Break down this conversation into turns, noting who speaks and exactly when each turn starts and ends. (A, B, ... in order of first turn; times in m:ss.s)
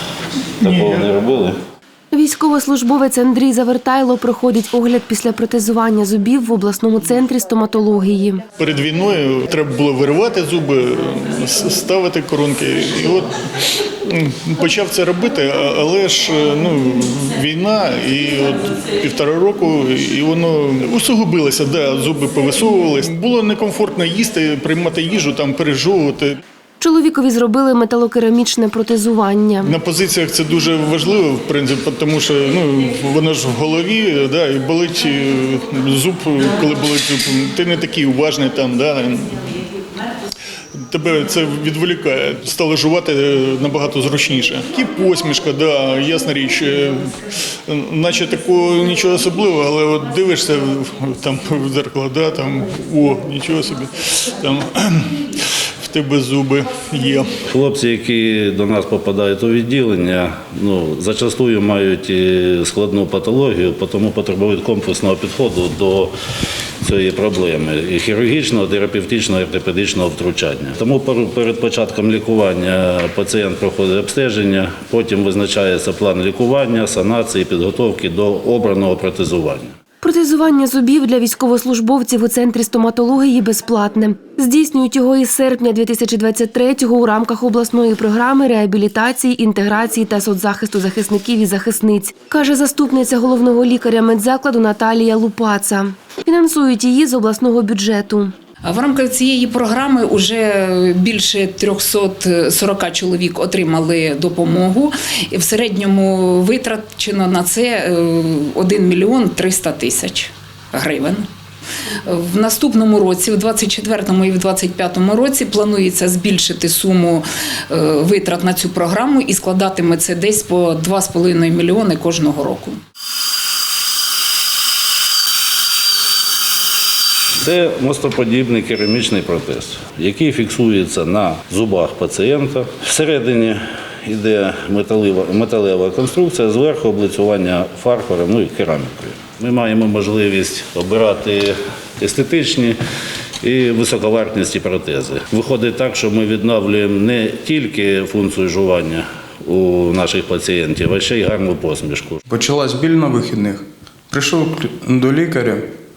0:00.6-0:01.5 A
0:00.6-0:01.1 B
0:02.1-0:08.4 C
0:08.6-0:13.3 B
0:13.9-0:26.4 B
0:26.8-0:29.7 C
0:29.6-0:39.4 B
0:40.8-0:47.2 B
0:47.7-0:57.3 B
0:57.4-1:06.1 A
1:06.8-1:19.7 A
1:20.0-1:38.3 C
1:38.6-1:51.2 D
1:52.0-2:02.8 D
2:07.4-2:22.8 A
2:23.4-2:32.2 A
2:32.3-2:35.7 E